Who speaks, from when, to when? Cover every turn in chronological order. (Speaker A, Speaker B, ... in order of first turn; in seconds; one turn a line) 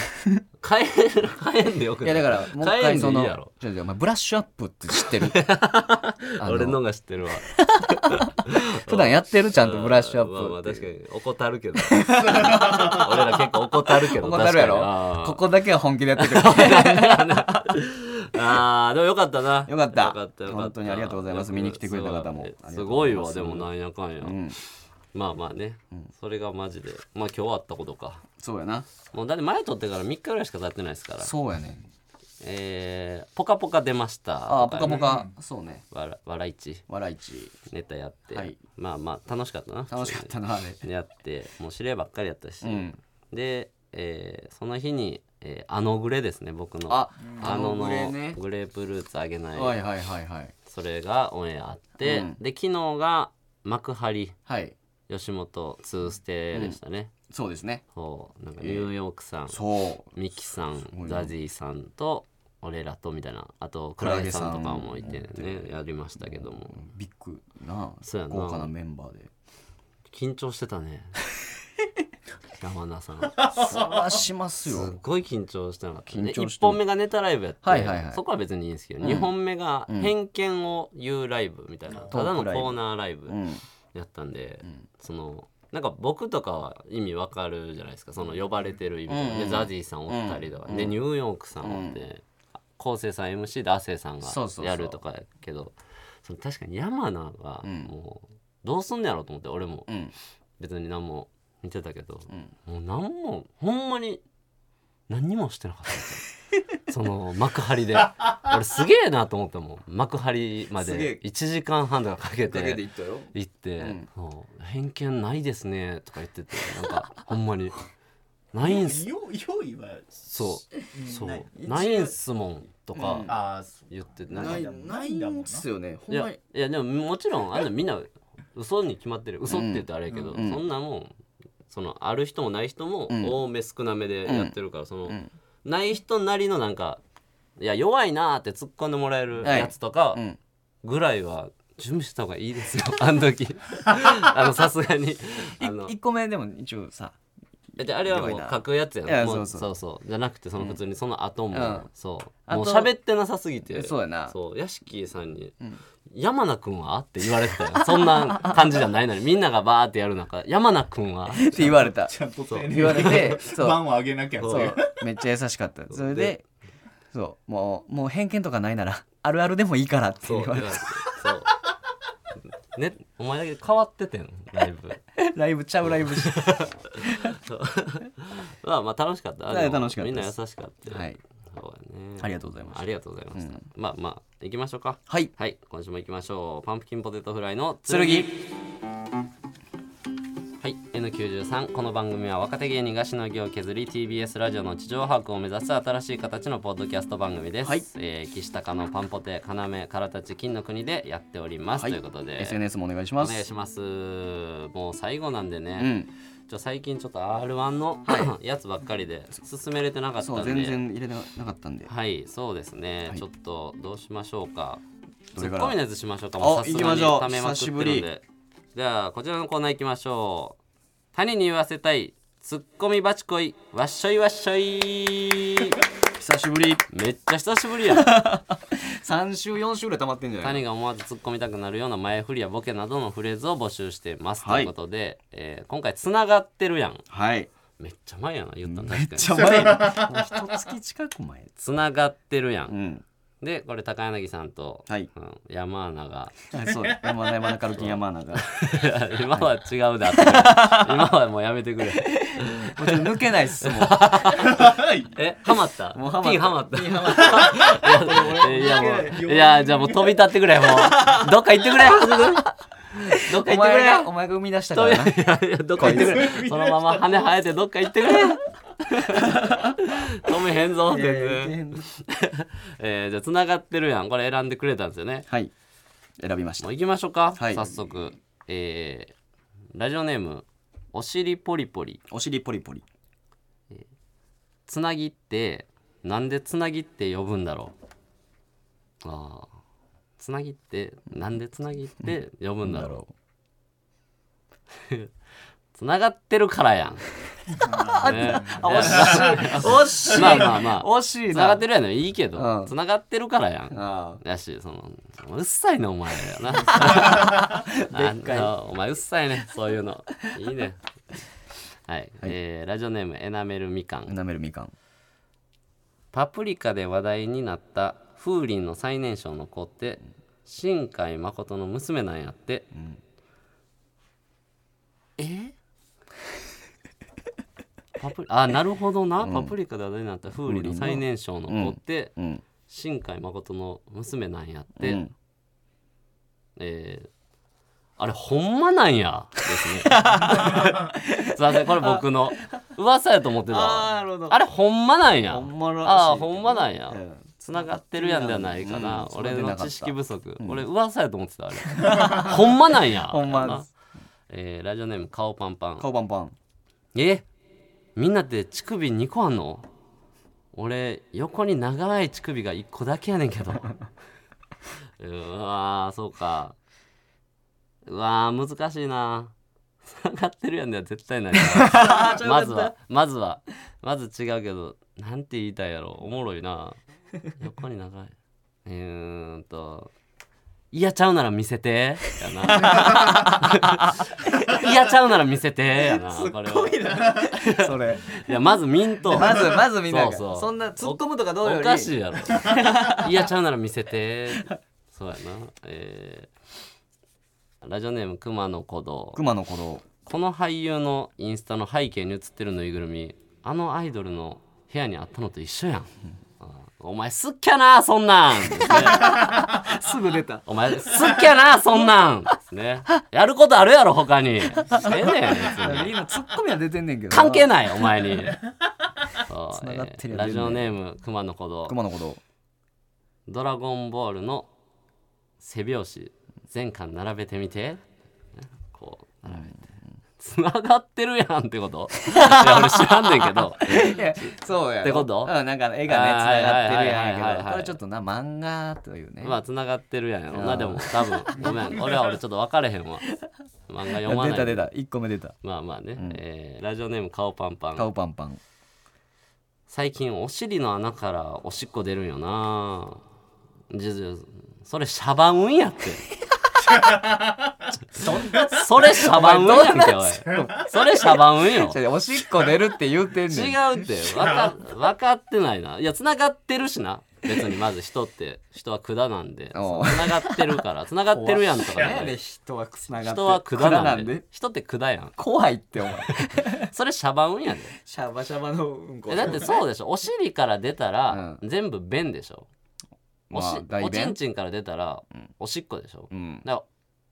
Speaker A: 0.1-0.4
Speaker B: 0.6-3.5
Speaker A: 2.0-5.4
Speaker B: 5.0-15.4
Speaker A: 6.4-6.8
Speaker A: 7.5-10.9
Speaker A: 11.9-13.2
Speaker A: 14.0-17.8
Speaker B: 16.2-24.4
Speaker A: 19.7-23.7
Speaker A: 24.2-24.6
Speaker B: 25.1-28.2
Speaker A: 28.4-28.9
Speaker B: 29.1-31.3
Speaker A: 31.2-31.8
Speaker B: 32.4-35.1
Speaker A: 34.5-35.8
Speaker C: 34.8-35.3
Speaker B: 35.9-36.8
Speaker A: 36.9-37.6
Speaker B: 37.7-49.8
Speaker A: 38.3-38.6
Speaker A: 39.9-40.8
Speaker A: 42.6-43.0
Speaker A: 46.9-48.4
Speaker A: 49.5-50.5
Speaker B: 50.7-54.4
Speaker A: 52.0-52.4
Speaker A: 54.5-54.8
Speaker B: 55.1-57.1
Speaker A: 56.5-57.8
Speaker B: 57.9-59.6
Speaker A: 58.6-58.9
Speaker A: 59.5-60.1
Speaker B: 60.1-66.9
Speaker A: 60.9-61.3
Speaker A: 64.0-69.3
Speaker B: 68.0-68.7
Speaker B: 70.1-71.2
Speaker B: 72.5-73.7
Speaker C: 73.4-74.0
Speaker A: 73.5-75.0
Speaker B: 74.7-83.4
Speaker A: 76.1-76.8
Speaker A: 77.6-78.2
Speaker A: 79.0-79.3
Speaker A: 79.9-80.1
Speaker A: 82.1-83.6
Speaker B: 83.9-92.2
Speaker A: 89.1-91.0
Speaker A: 91.6-92.0
Speaker B: 92.8-99.9
Speaker A: 94.2-95.0
Speaker A: 97.6-97.9
Speaker A: 99.9-100.1
Speaker B: 100.6-104.2
Speaker B: 105.1-106.3
Speaker B: 106.8-117.8
Speaker A: 110.8-111.2
Speaker A: 112.5-114.1
Speaker B: 118.5-119.0
Speaker C: 118.6-121.7
Speaker B: 120.3-123.3
Speaker A: 121.6-122.1
Speaker A: 122.9-123.3
Speaker C: 123.3-125.7
Speaker B: 123.9-124.7
Speaker A: 124.3-126.4
Speaker B: 126.1-131.2
Speaker A: 129.5-130.6
Speaker B: 131.7-137.0
Speaker A: 133.1-133.4
Speaker A: 134.3-134.5
Speaker B: 137.6-140.2
Speaker A: 139.4-140.4
Speaker B: 140.8-145.9
Speaker A: 145.6-147.2
Speaker B: 147.8-161.8
Speaker A: 148.1-149.7
Speaker A: 151.5-151.9
Speaker A: 152.5-152.9
Speaker A: 153.7-154.3
Speaker A: 157.9-158.5
Speaker A: 161.3-162.2
Speaker C: 161.6-165.1
Speaker B: 162.5-163.3
Speaker A: 162.7-163.8
Speaker B: 164.4-164.8
Speaker A: 164.5-166.4
Speaker B: 165.9-166.3
Speaker A: 167.1-170.9
Speaker B: 170.2-171.5
Speaker B: 172.7-175.0
Speaker A: 175.2-177.3
Speaker B: 175.9-188.4
Speaker A: 179.5-180.3
Speaker A: 180.9-181.2
Speaker A: 182.2-183.6
Speaker A: 187.9-188.4
Speaker B: 190.6-202.6
Speaker A: 201.8-203.4
Speaker B: 203.2-205.9
Speaker A: 205.8-206.1
Speaker B: 206.5-210.8
Speaker A: 208.1-208.3
Speaker A: 210.2-211.9
Speaker B: 211.9-214.8
Speaker A: 215.3-215.8
Speaker B: 215.4-220.6
Speaker A: 216.4-218.1
Speaker B: 221.1-225.8
Speaker A: 226.2-226.9
Speaker B: 226.9-228.2
Speaker A: 227.9-230.6
Speaker B: 230.4-237.0
Speaker A: 234.4-234.7
Speaker A: 237.1-237.5
Speaker B: 237.8-239.7
Speaker A: 238.6-241.5
Speaker C: 239.3-240.3
Speaker B: 241.6-242.7
Speaker A: 242.7-243.0
Speaker B: 243.4-246.3
Speaker A: 246.5-248.5
Speaker B: 247.8-264.1
Speaker A: 250.1-251.0
Speaker A: 252.0-254.5
Speaker C: 254.4-255.1
Speaker A: 255.9-259.2
Speaker C: 257.0-260.2
Speaker A: 260.8-261.3
Speaker A: 263.3-265.1
Speaker B: 264.7-275.3
Speaker A: 265.8-266.3
Speaker C: 265.8-267.3
Speaker A: 269.1-269.8
Speaker A: 270.9-271.8
Speaker A: 276.2-276.7
Speaker B: 276.6-279.1
Speaker A: 277.3-277.9
Speaker B: 279.7-282.0
Speaker A: 282.1-282.8
Speaker B: 284.7-287.8
Speaker B: 289.0-289.5
Speaker B: 290.2-293.0
Speaker A: 292.0-293.1
Speaker B: 294.8-295.1
Speaker B: 295.7-297.1
Speaker C: 297.6-300.3
Speaker A: 297.7-301.6
Speaker B: 298.0-310.8
Speaker A: 302.4-302.7
Speaker A: 303.7-304.2
Speaker A: 306.7-308.5
Speaker B: 311.9-314.1
Speaker A: 314.1-314.7
Speaker B: 316.1-322.7
Speaker A: 322.7-323.0
Speaker B: 325.2-325.6
Speaker B: 328.0-332.1
Speaker A: 329.2-329.6
Speaker A: 330.4-332.4
Speaker B: 332.7-335.0
Speaker A: 334.8-335.1
Speaker B: 336.6-337.1
Speaker B: 338.0-353.7
Speaker A: 339.9-342.1
Speaker A: 343.5-344.4
Speaker A: 345.3-350.6
Speaker A: 351.7-352.4
Speaker A: 353.0-353.7
Speaker B: 354.3-355.9
Speaker A: 355.8-356.4
Speaker B: 356.9-357.3
Speaker B: 358.0-359.7
Speaker B: 360.5-363.7
Speaker B: 365.0-366.6
Speaker B: 367.9-369.3
Speaker B: 369.8-378.1
Speaker A: 371.4-372.7
Speaker B: 378.6-379.9
Speaker B: 380.7-396.3
Speaker A: 382.4-384.7
Speaker A: 385.8-388.2
Speaker A: 389.1-393.2
Speaker B: 397.6-399.2
Speaker A: 399.1-399.9
Speaker B: 400.1-409.3
Speaker A: 408.6-410.5
Speaker B: 410.5-416.0
Speaker A: 414.6-417.5
Speaker B: 417.1-418.4
Speaker B: 419.3-421.8
Speaker A: 419.5-420.7
Speaker A: 421.7-422.2
Speaker B: 423.3-424.5
Speaker B: 425.4-427.8
Speaker B: 428.4-429.6
Speaker A: 429.3-429.8
Speaker B: 430.2-434.3
Speaker A: 432.1-439.4
Speaker B: 434.8-435.3
Speaker B: 435.9-437.8
Speaker B: 439.2-443.1
Speaker A: 440.3-441.7
Speaker B: 443.7-444.7
Speaker A: 444.0-445.4
Speaker B: 445.4-447.9
Speaker A: 447.8-448.4
Speaker B: 449.7-453.0
Speaker B: 453.7-456.1
Speaker C: 456.7-457.6
Speaker B: 458.0-461.8
Speaker A: 458.0-460.7
Speaker C: 458.1-458.6
Speaker A: 461.4-463.7
Speaker B: 463.3-472.2
Speaker A: 469.5-474.2
Speaker B: 473.0-475.2
Speaker A: 475.2-476.7
Speaker B: 476.1-477.8
Speaker A: 477.7-479.6
Speaker B: 479.1-482.5
Speaker A: 481.1-481.4
Speaker A: 483.3-484.2
Speaker B: 483.3-486.6
Speaker A: 486.1-486.4